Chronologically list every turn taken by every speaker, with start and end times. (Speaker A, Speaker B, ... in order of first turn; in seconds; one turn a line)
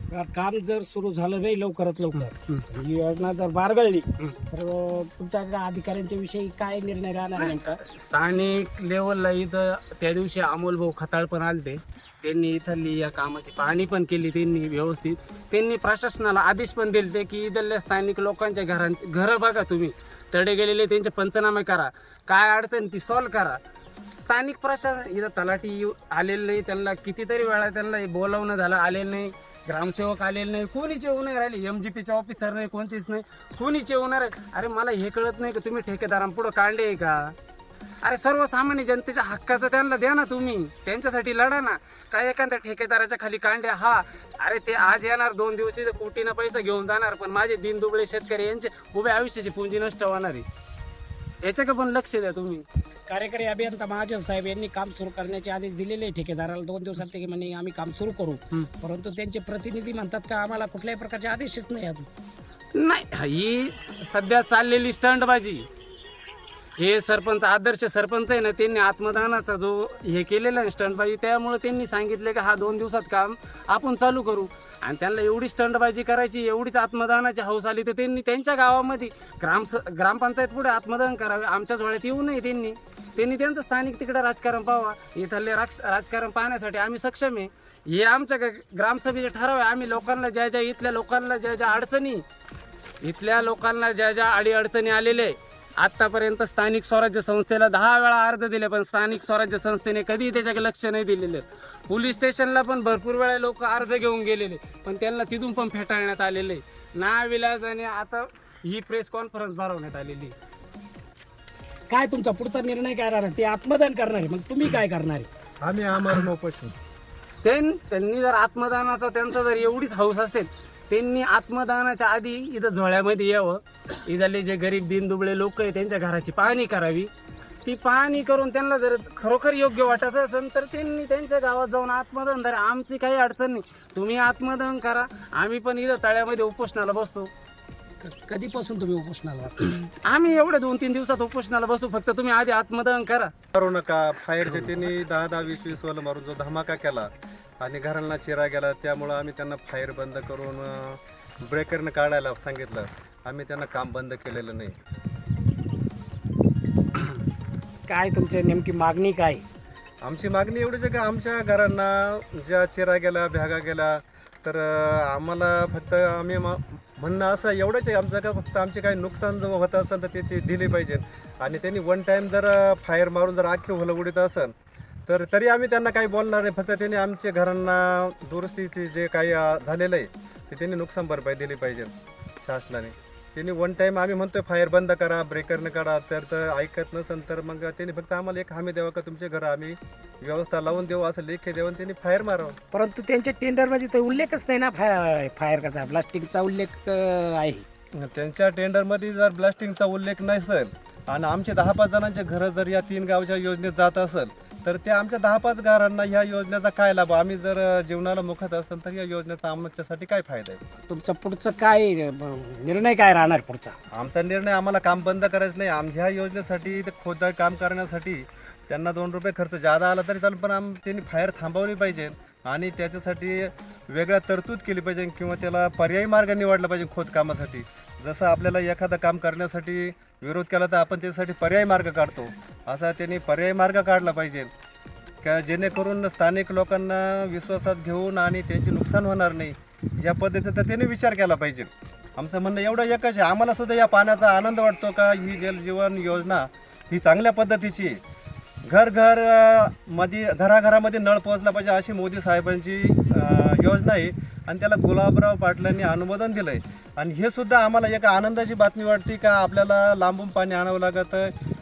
Speaker A: 0.1-7.8
Speaker B: 2.1-2.6
Speaker B: 7.4-23.6
Speaker B: 24.2-37.3
Speaker B: 38.0-50.5
Speaker B: 51.4-52.6
Speaker A: 53.1-62.1
Speaker B: 62.8-65.7
Speaker B: 66.8-92.2
Speaker B: 93.0-110.3
Speaker A: 111.9-115.3
Speaker C: 115.6-116.7
Speaker B: 117.4-127.1
Speaker B: 127.7-137.3
Speaker A: 138.0-139.7
Speaker B: 139.6-143.3
Speaker C: 143.6-154.8
Speaker A: 157.9-159.4
Speaker C: 160.0-174.5
Speaker C: 175.1-192.6
Speaker A: 192.7-197.7
Speaker C: 198.0-210.6
Speaker A: 210.9-213.8
Speaker C: 213.9-234.5
Speaker C: 235.2-248.0
Speaker C: 248.7-261.3